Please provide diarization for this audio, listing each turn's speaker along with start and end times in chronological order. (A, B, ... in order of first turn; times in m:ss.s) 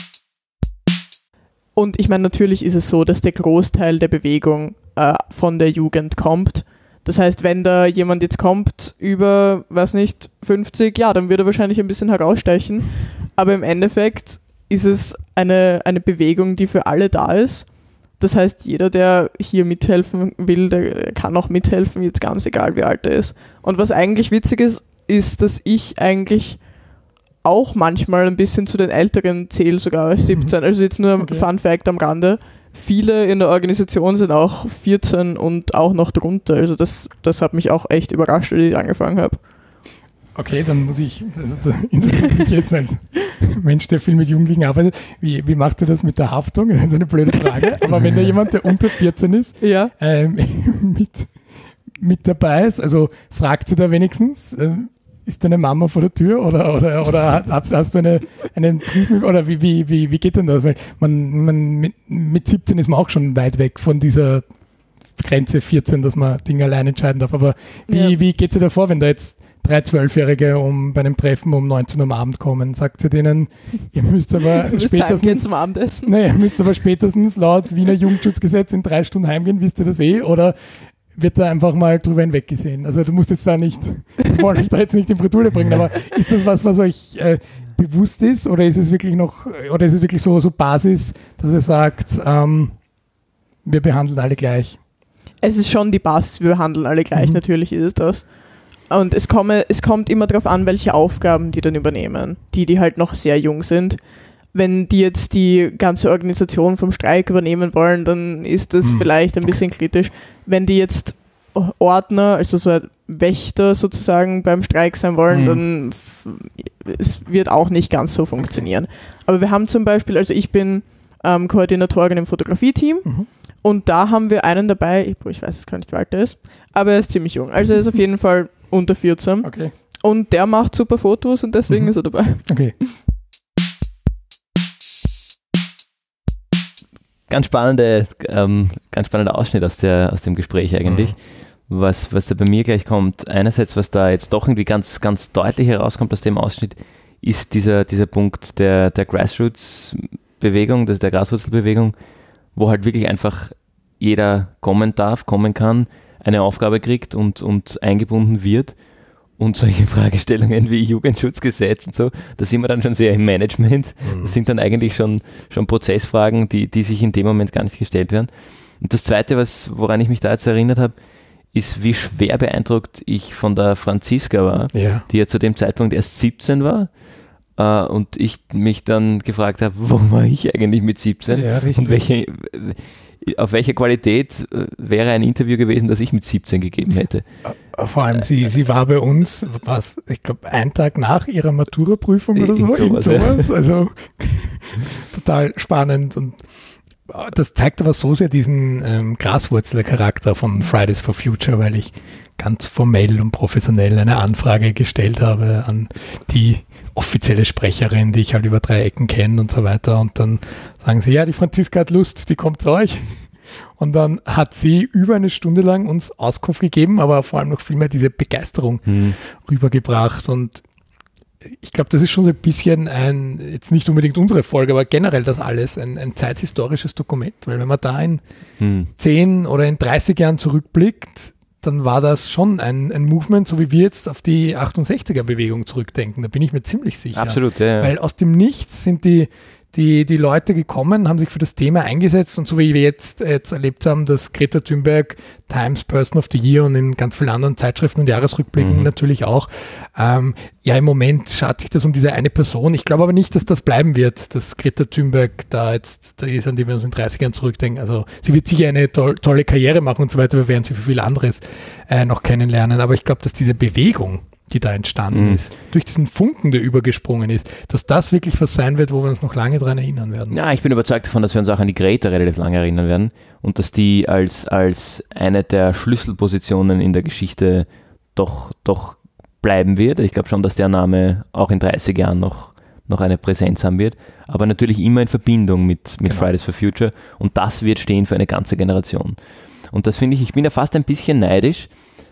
0:01.7-0:39.4 A
0:31.2-0:31.4 B
0:40.3-1:32.8 B
0:49.6-0:49.9 A
1:07.9-1:08.2 A
1:14.6-1:16.5 A
1:33.6-1:34.8 B
1:35.4-2:12.6 A
1:48.8-1:49.6 B
1:55.3-1:55.6 B
2:09.4-2:09.7 B
2:11.7-2:12.8 B
2:17.3-2:32.0 C
2:20.9-2:21.1 B
2:32.5-2:38.8 C
2:39.4-2:51.0 C
2:44.0-2:44.4 B
2:51.5-2:56.9 C
2:54.7-2:55.0 B
2:57.6-3:07.2 C
3:01.3-3:02.0 B
3:07.4-3:16.5 B
3:12.4-3:13.5 C
3:17.1-3:40.6 B
3:38.9-3:39.2 C
3:41.4-3:48.2 B
3:48.6-3:48.9 C
3:48.9-4:30.4 B
3:57.1-3:57.9 C
4:08.6-4:08.9 C
4:25.1-4:25.4 C
4:30.3-4:49.2 C
4:49.7-4:51.7 C